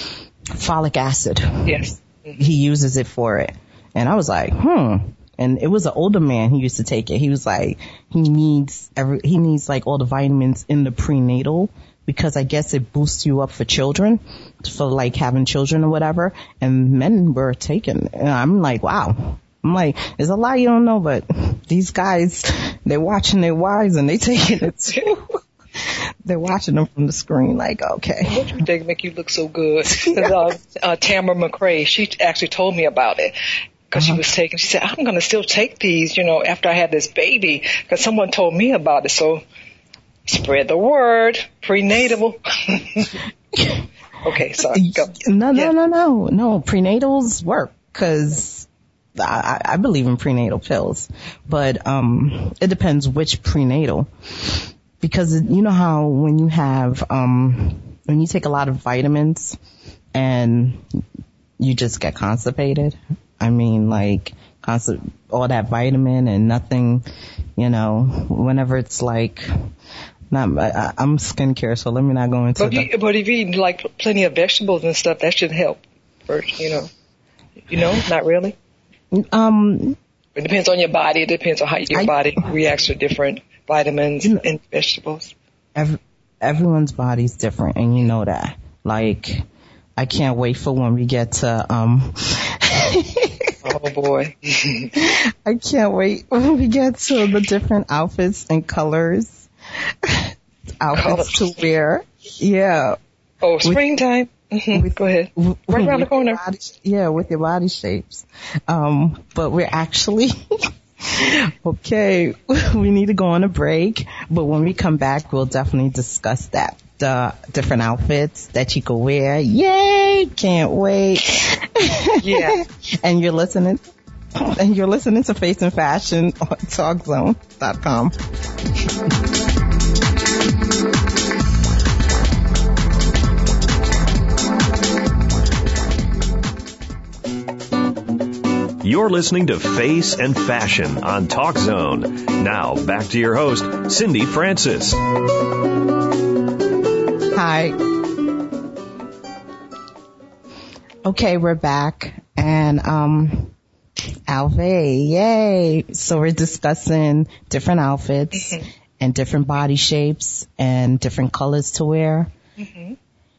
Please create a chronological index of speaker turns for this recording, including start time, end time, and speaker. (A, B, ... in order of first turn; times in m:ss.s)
0:00.5-0:01.8 A
0:01.6-0:02.4 B
0:02.4-0:28.5 A
0:28.2-0:33.4 B
0:29.9-0:30.4 A
0:33.9-0:39.4 B
0:34.0-0:34.2 A
0:40.3-0:43.2 B
0:43.6-0:43.8 A
0:44.2-0:45.7 B
0:44.7-0:59.6 A
1:00.1-1:01.0 A
1:01.6-1:07.0 A
1:07.6-1:09.5 A
1:10.3-1:12.9 A
1:12.6-1:16.9 B
1:17.7-1:18.6 B
1:19.1-1:20.0 A
1:20.4-1:25.3 B
1:25.8-1:29.4 A
1:30.0-1:33.6 A
1:33.6-1:34.9 B
1:34.9-1:39.5 A
1:40.0-1:43.0 A
1:40.9-1:41.4 B
1:43.4-1:46.4 B
1:44.7-2:03.8 A
2:02.2-2:02.6 B
2:04.4-2:08.2 A
2:18.8-2:25.0 C
2:27.3-2:27.8 A
2:31.0-2:33.5 A
2:34.3-2:42.3 A
2:38.4-2:38.6 B
2:42.6-2:43.0 B